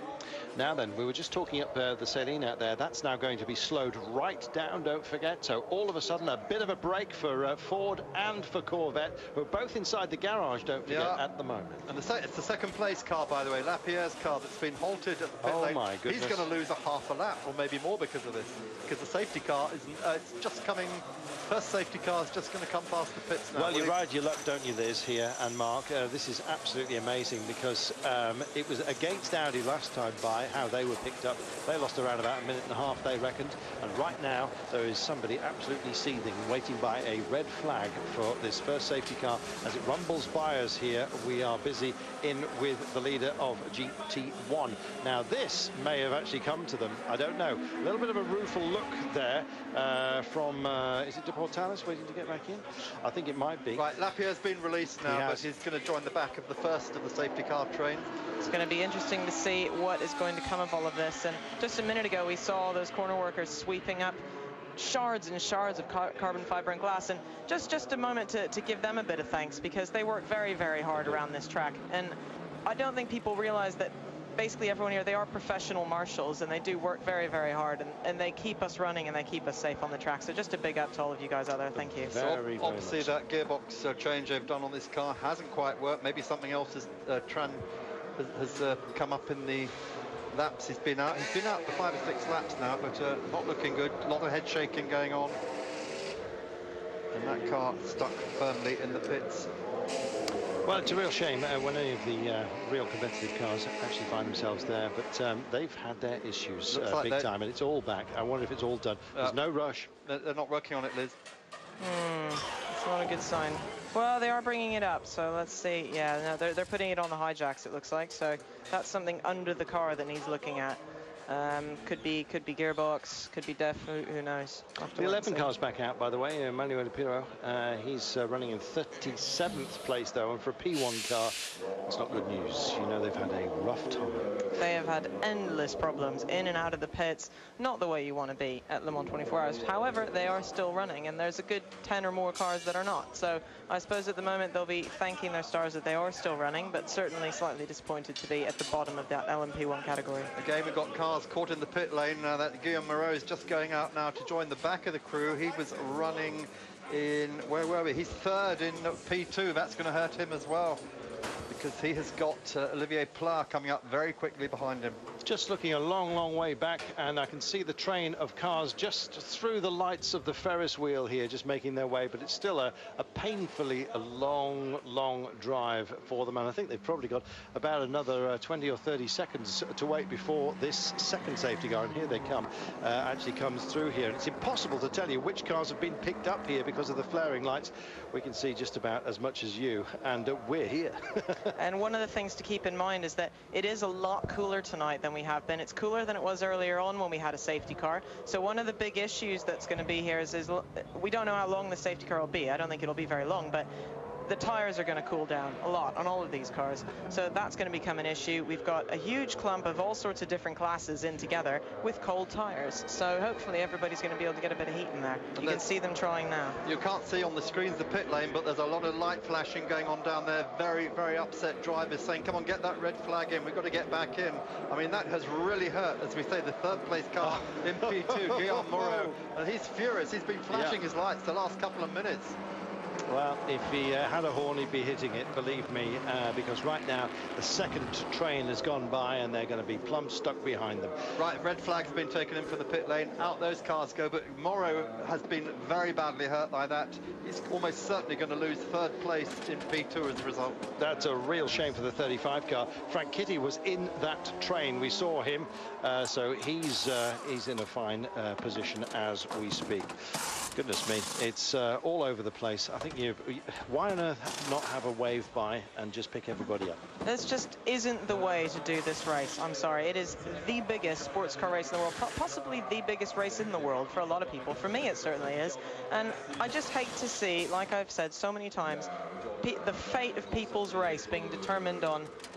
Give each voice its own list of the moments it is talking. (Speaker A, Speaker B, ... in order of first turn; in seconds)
Speaker A: 0.6-11.8, 15.4-16.5, 23.5-53.9, 55.0-55.4, 81.8-83.2, 100.7-109.9, 124.9-134.3, 165.2-191.5, 227.2-229.2, 230.5-230.8, 233.1-241.1, 250.8-259.9, 260.5-266.8
Speaker B: 10.8-11.2, 11.9-24.0, 53.7-58.1, 82.1-87.6, 88.2-89.7, 90.3-95.4, 97.1-99.5, 106.7-107.3, 109.2-109.4, 110.0-111.2, 150.3-160.8, 161.5-165.0, 215.3-215.7, 216.6-232.4, 241.2-250.6
Speaker C: 58.4-64.2, 64.8-82.2, 111.8-125.5, 134.6-150.3, 191.6-203.7, 204.2-216.6, 267.0-278.9, 279.4-282.1